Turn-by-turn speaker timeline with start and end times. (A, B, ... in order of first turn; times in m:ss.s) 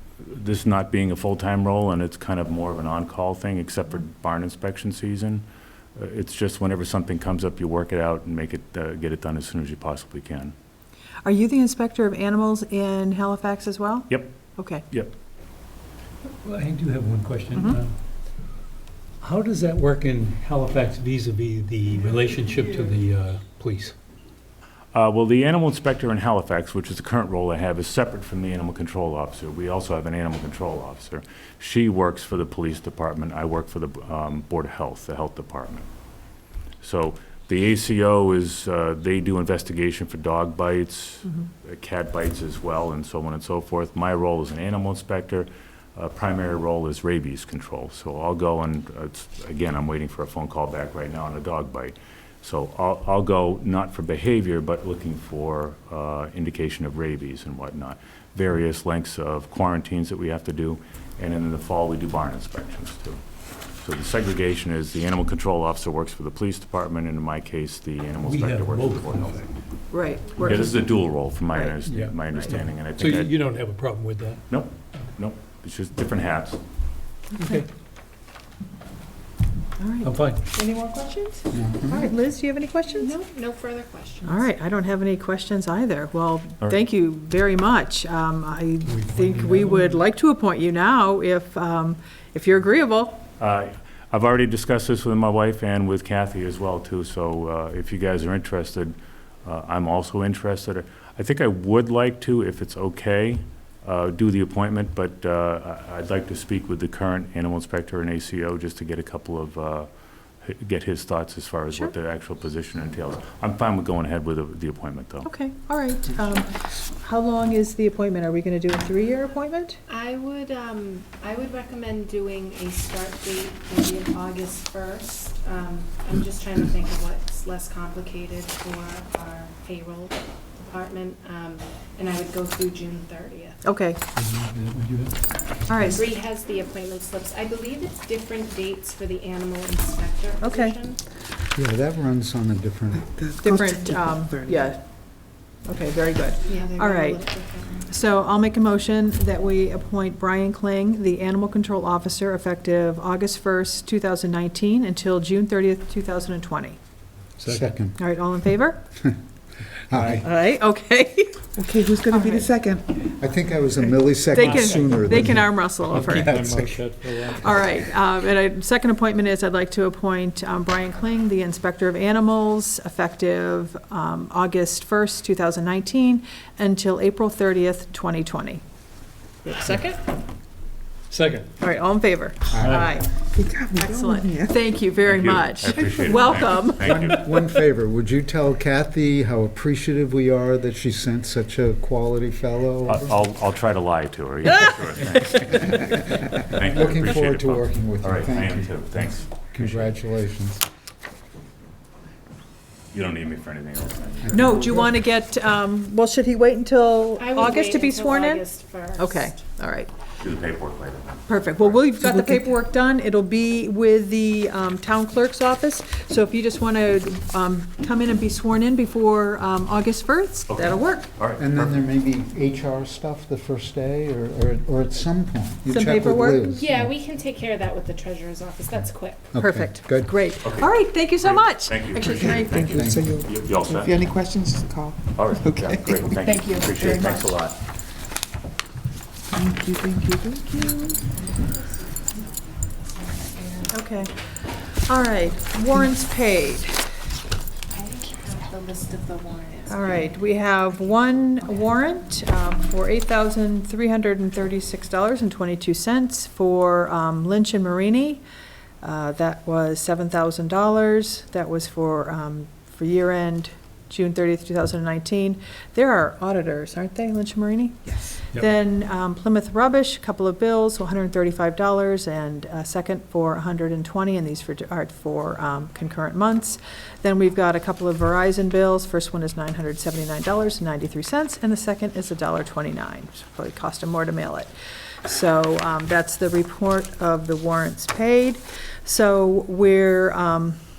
0:00.2-0:05.4 A
0:05.9-0:10.5 A
0:11.2-0:14.8 B
0:14.1-0:15.1 A
0:16.4-0:18.0 C
0:17.5-0:17.8 B
0:19.2-0:23.9 C
0:24.9-0:35.9 A
0:36.8-1:03.2 A
1:03.7-1:09.4 A
1:08.2-1:09.5 C
1:09.9-1:11.7 B
1:10.4-1:13.3 A
1:11.8-1:14.5 C
1:14.5-1:16.6 A
1:17.4-1:17.7 C
1:19.8-1:23.1 B
1:20.0-1:20.4 C
1:21.5-1:22.1 D
1:22.9-1:24.4 E
1:24.2-1:33.2 B
1:28.8-1:30.0 C
1:33.4-1:49.9 A
1:50.4-1:55.3 A
1:55.2-1:59.8 B
1:59.9-2:13.6 E
2:13.6-2:14.0 B
2:14.1-2:15.2 C
2:15.7-2:16.0 B
2:15.8-2:21.0 E
2:20.4-2:20.8 B
2:21.5-2:23.1 D
2:23.0-2:24.7 F
2:23.4-2:27.2 B
2:26.4-2:27.9 E
2:27.9-2:36.8 B
2:37.4-2:37.7 C
2:37.5-2:38.0 D
2:37.9-2:38.8 B
2:39.9-2:40.3 D
2:39.9-2:40.3 C
2:40.2-2:41.5 B
2:41.6-2:43.0 F
2:42.1-2:42.5 B
2:43.2-2:46.8 D
2:44.3-2:46.4 B
2:44.3-2:47.6 C
2:47.4-2:58.6 B
2:59.4-3:00.0 B
3:01.1-3:01.5 C
3:01.6-3:03.1 B
3:02.5-3:03.0 D
3:02.5-3:02.9 C
3:03.2-3:04.7 F
3:03.8-3:07.1 B
3:05.0-3:07.3 A
3:05.8-3:06.4 F
3:06.8-3:13.2 D
3:12.9-3:19.9 A
3:15.6-3:20.6 D
3:22.9-3:24.7 A
3:24.2-3:24.7 D
3:24.3-3:29.9 B
3:27.2-3:29.4 E
3:30.2-3:31.8 A
3:31.3-3:41.1 B
3:32.0-3:32.4 F
3:40.5-3:41.8 A
3:41.4-3:46.9 D
3:45.7-3:46.5 B
3:46.5-3:49.2 E
3:49.3-3:50.2 D
3:49.4-3:52.9 B
3:50.4-3:54.1 A
3:52.2-3:56.2 F
3:52.7-3:53.1 D
3:55.1-3:57.6 A
3:56.2-3:57.3 B
3:59.3-4:01.0 F
4:01.0-4:04.4 E
4:03.7-4:04.1 B
4:04.8-4:06.8 B
4:07.7-4:11.7 E
4:09.7-4:18.2 B
4:18.8-4:44.5 B
4:45.0-4:50.6 B